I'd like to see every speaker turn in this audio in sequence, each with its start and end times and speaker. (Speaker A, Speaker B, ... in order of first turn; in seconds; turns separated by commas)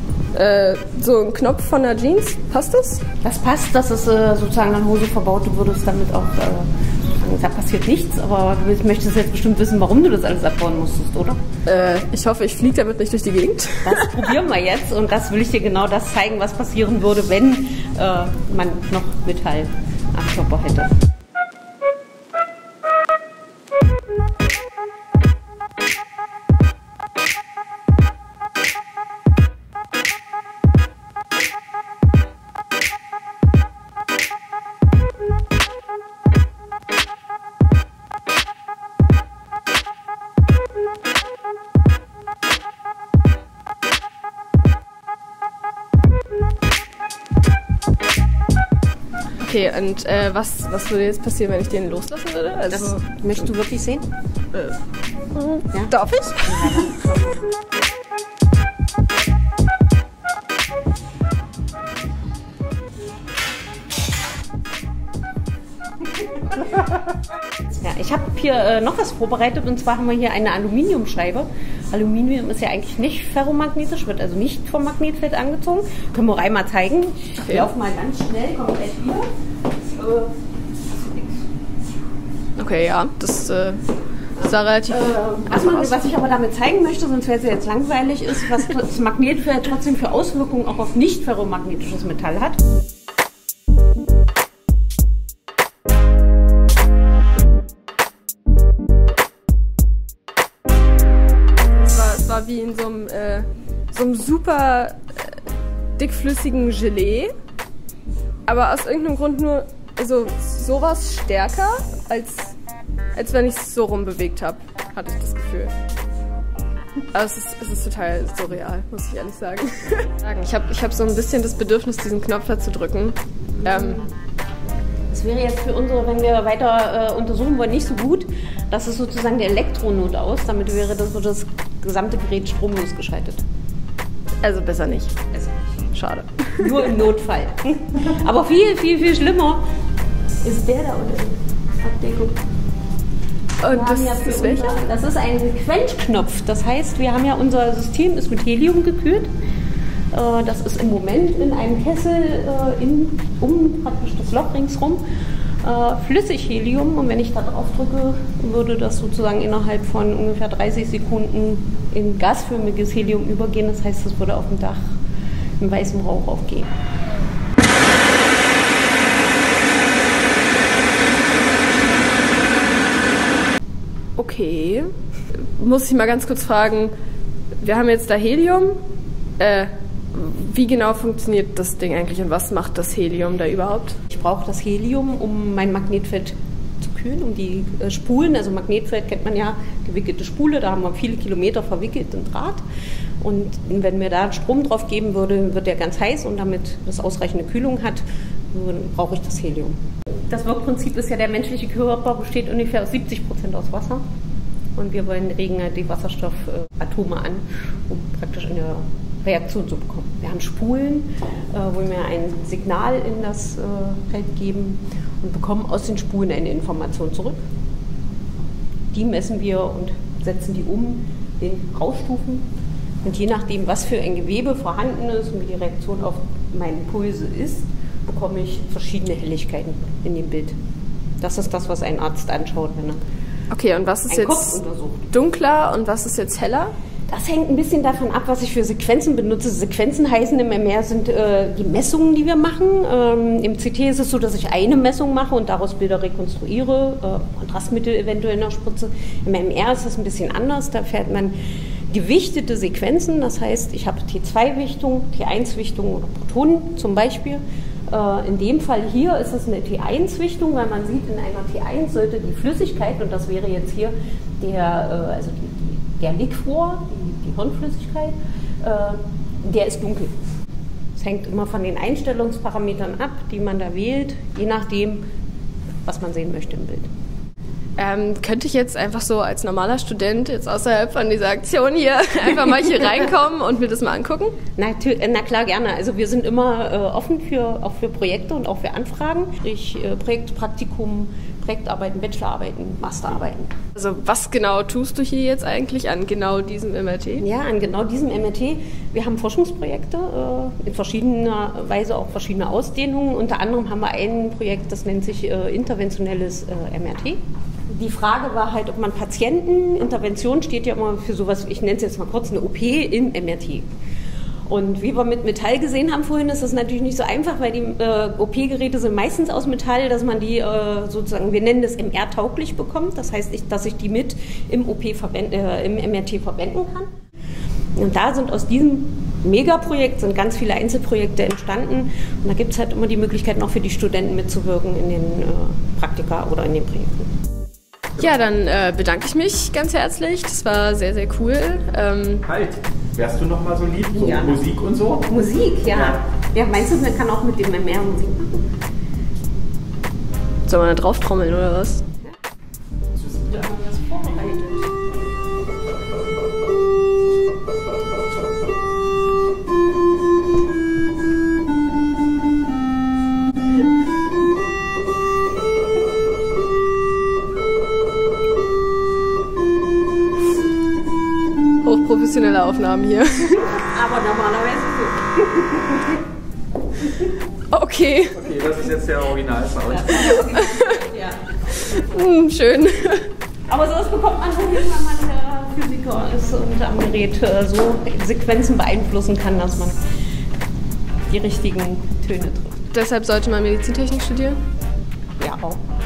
Speaker A: 0.3-3.0, Speaker B: 3.2-11.4, Speaker A: 11.7-14.3, Speaker B: 13.8-20.9, Speaker A: 49.4-53.0, Speaker B: 52.7-54.1, Speaker A: 55.3-57.1, Speaker B: 55.7-57.3, Speaker B: 67.7-79.3, Speaker A: 77.4-77.7, Speaker B: 80.0-80.3, Speaker B: 80.9-81.5, Speaker A: 82.6-83.8, Speaker A: 84.4-86.1, Speaker B: 84.4-92.6, Speaker A: 101.7-105.4, Speaker A: 106.0-107.3, Speaker A: 108.5-112.5, Speaker A: 113.1-115.7, Speaker A: 117.1-124.1, Speaker B: 123.7-124.1, Speaker B: 125.1-133.4, Speaker A: 134.4-135.2, Speaker A: 135.9-136.9, Speaker B: 136.6-139.6, Speaker B: 140.4-142.4, Speaker A: 143.6-144.8, Speaker B: 143.7-149.3, Speaker B: 150.1-155.0, Speaker B: 155.6-164.9, Speaker B: 165.6-166.7, Speaker A: 174.2-176.9, Speaker A: 177.6-178.8, Speaker A: 179.4-184.0, Speaker B: 184.1-192.6, Speaker B: 193.2-199.8, Speaker B: 200.3-204.0, Speaker B: 204.8-217.4, Speaker B: 218.9-222.5, Speaker B: 223.0-230.6, Speaker B: 231.2-233.0, Speaker A: 233.5-236.7, Speaker B: 234.1-235.1, Speaker B: 237.1-251.3, Speaker B: 251.9-270.1, Speaker B: 271.0-275.0, Speaker B: 275.9-276.9, Speaker A: 277.8-284.4, Speaker B: 284.6-293.5, Speaker A: 293.7-297.3, Speaker B: 297.2-313.7, Speaker B: 314.5-326.9, Speaker B: 327.8-337.1, Speaker A: 338.0-342.3, Speaker C: 342.3-345.1, Speaker B: 344.0-344.4, Speaker B: 345.1-348.5, Speaker C: 345.7-346.0, Speaker A: 350.5-351.8, Speaker C: 353.0-353.3, Speaker B: 353.3-354.7, Speaker A: 371.6-373.6, Speaker B: 373.5-376.0, Speaker A: 377.5-378.3, Speaker C: 378.2-380.0, Speaker B: 379.7-382.1, Speaker A: 379.9-380.8, Speaker A: 381.6-383.1, Speaker B: 383.5-389.8, Speaker B: 391.1-392.7, Speaker A: 392.7-394.4, Speaker B: 395.2-395.6